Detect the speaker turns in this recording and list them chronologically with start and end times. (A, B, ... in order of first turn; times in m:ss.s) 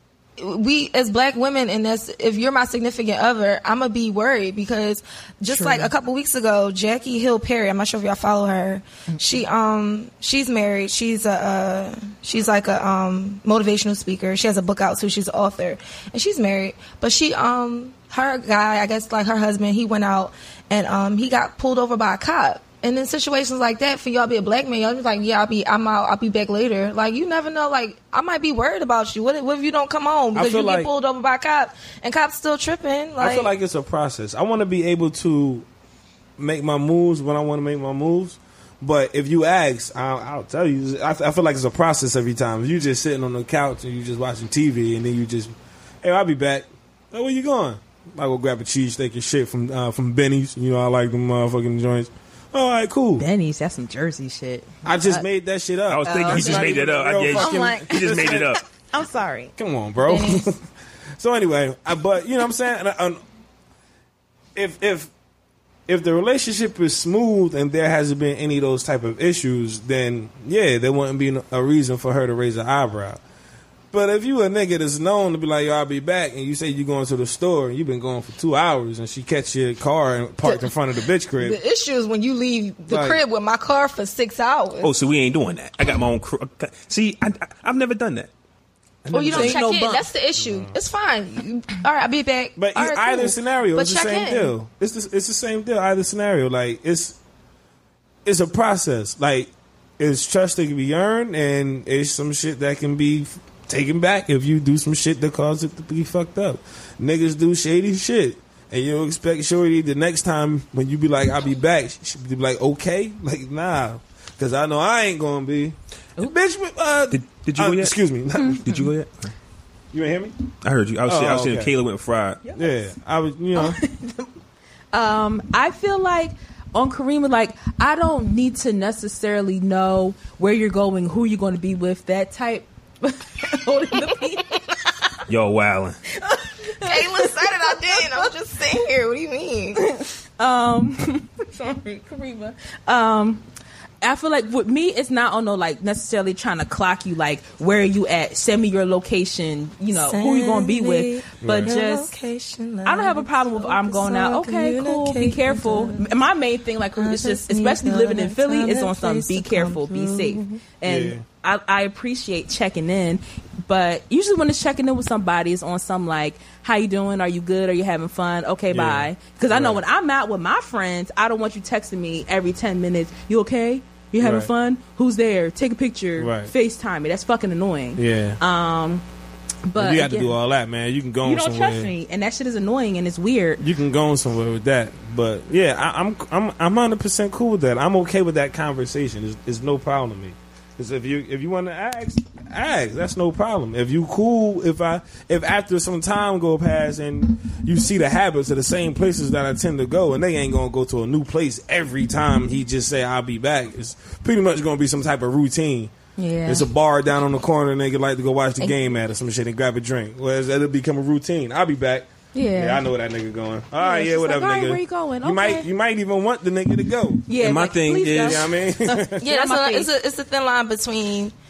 0:00.4-0:33.5 A
0:05.5-0:05.9 B
0:30.3-0:30.9 C
0:33.2-0:35.6 C
0:36.4-0:53.2 C
0:53.2-0:55.2 B
0:54.8-0:58.6 C
0:55.9-0:58.6 D
0:56.0-0:59.5 B
0:59.6-1:03.2 C
1:00.0-1:00.4 A
1:04.5-1:05.1 C
1:05.9-1:13.2 C
1:13.9-1:21.6 C
1:21.4-1:24.9 A
1:22.9-1:23.2 C
1:24.8-1:28.3 D
1:29.0-1:29.6 C
1:29.1-1:34.5 A
1:29.3-1:30.1 B
1:30.4-1:30.7 C
1:32.6-1:37.2 C
1:38.2-1:58.6 C
1:57.1-1:58.0 D
1:58.3-1:58.9 B
1:58.6-1:59.3 D
1:59.9-2:00.4 C
2:00.6-2:02.4 D
2:01.0-2:01.7 C
2:02.4-2:02.7 B
2:02.5-2:03.8 C
2:03.5-2:04.3 B
2:04.9-2:14.6 B
2:15.3-2:16.0 D
2:16.2-2:18.3 B
2:16.8-2:19.8 A
2:19.8-2:23.4 B
2:24.0-2:32.1 B
2:29.9-2:36.1 A
2:31.4-2:31.7 C
2:32.8-2:59.0 B
2:37.0-2:40.6 A
2:40.8-2:41.2 C
2:48.7-2:49.8 C
2:54.2-2:54.5 C
2:56.2-2:56.5 C
2:58.0-2:58.4 C
2:59.6-3:00.4 B
2:59.8-3:01.9 C
3:01.2-3:03.6 B
3:03.6-3:25.9 C
3:26.2-3:26.7 B
3:26.4-3:37.3 C
3:32.3-3:32.9 B
3:33.8-3:35.7 B
3:37.3-3:39.9 B
3:37.4-3:38.5 D
3:38.2-3:39.2 C
3:39.2-3:41.3 A